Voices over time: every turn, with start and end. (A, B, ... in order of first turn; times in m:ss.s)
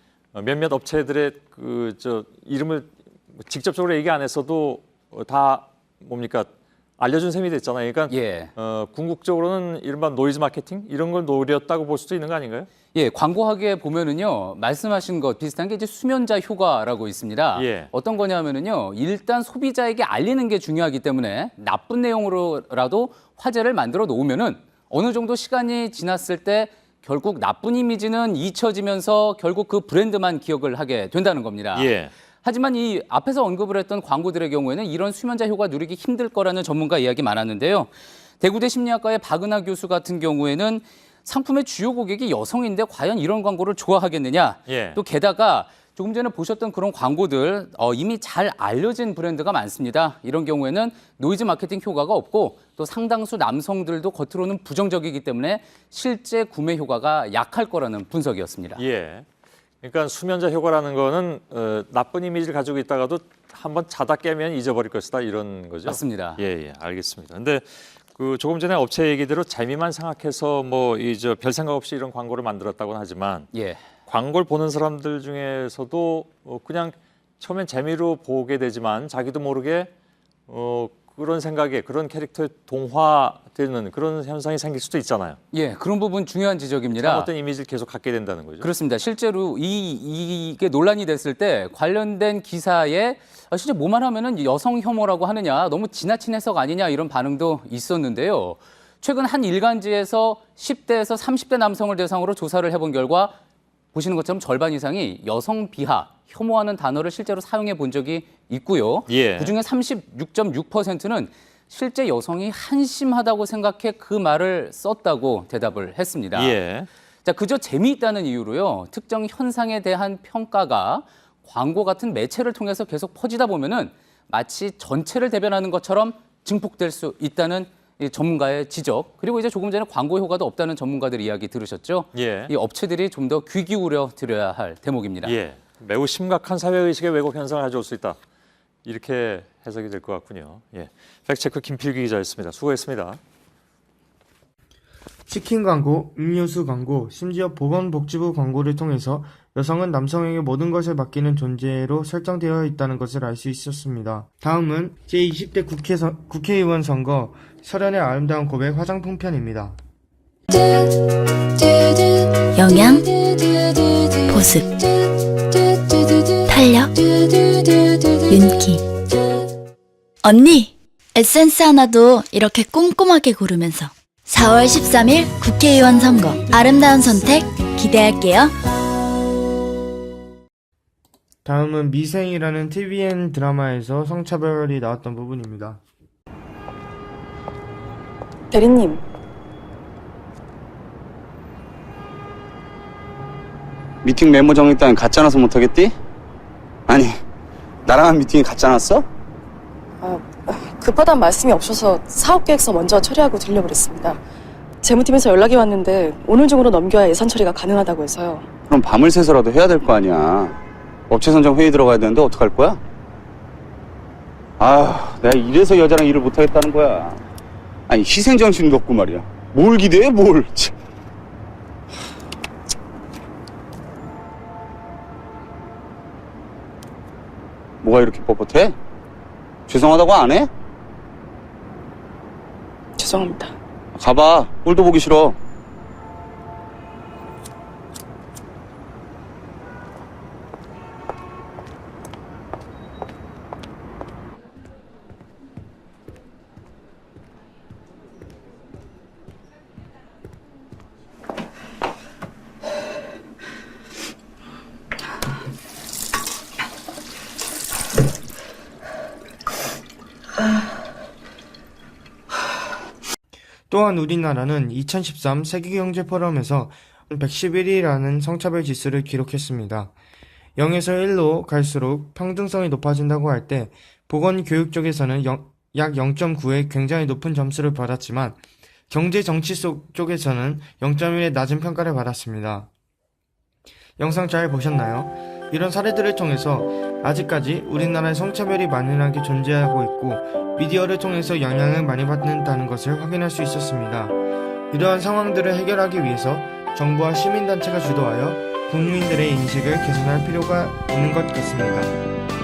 0:00.3-0:12.7 A
0:08.1-0:08.5 B
0:12.9-0:58.8 B
0:17.6-0:17.9 A
0:31.7-0:32.1 A
0:44.7-0:45.0 A
0:58.8-0:59.2 A
0:59.8-1:13.5 A
1:05.8-1:06.4 B
1:13.5-1:13.8 B
1:14.1-1:19.9 A
1:20.5-1:25.4 A
1:25.5-1:27.3 B
1:26.9-1:28.7 A
1:28.6-1:43.4 B
1:43.9-1:56.6 B
1:49.1-1:49.6 A
1:56.3-1:56.9 A
1:57.2-2:15.4 B
2:12.1-2:12.5 A
2:15.2-2:18.2 A
2:18.8-2:23.2 A
2:25.3-2:39.8 C
2:42.5-2:43.1 D
2:44.2-2:44.7 D
2:46.4-2:47.6 D
2:48.3-2:48.9 D
2:50.2-2:58.5 D
3:01.4-3:05.8 C
3:08.5-3:09.0 E
3:14.0-3:15.9 F
3:16.9-3:17.2 F
3:17.8-3:19.0 F
3:20.0-3:24.2 E
3:24.8-3:28.5 E
3:28.7-3:30.6 F
3:31.1-3:32.8 F
3:34.6-3:37.2 F
3:37.9-3:40.7 F
3:47.8-3:48.8 F
3:49.7-3:50.5 F
3:53.0-3:53.5 E
3:53.9-3:55.4 F
4:23.7-4:29.9 C
4:30.6-4:38.4 C
4:38.9-4:42.7 C
4:44.0-4:54.2 C
4:54.7-5:02.0 C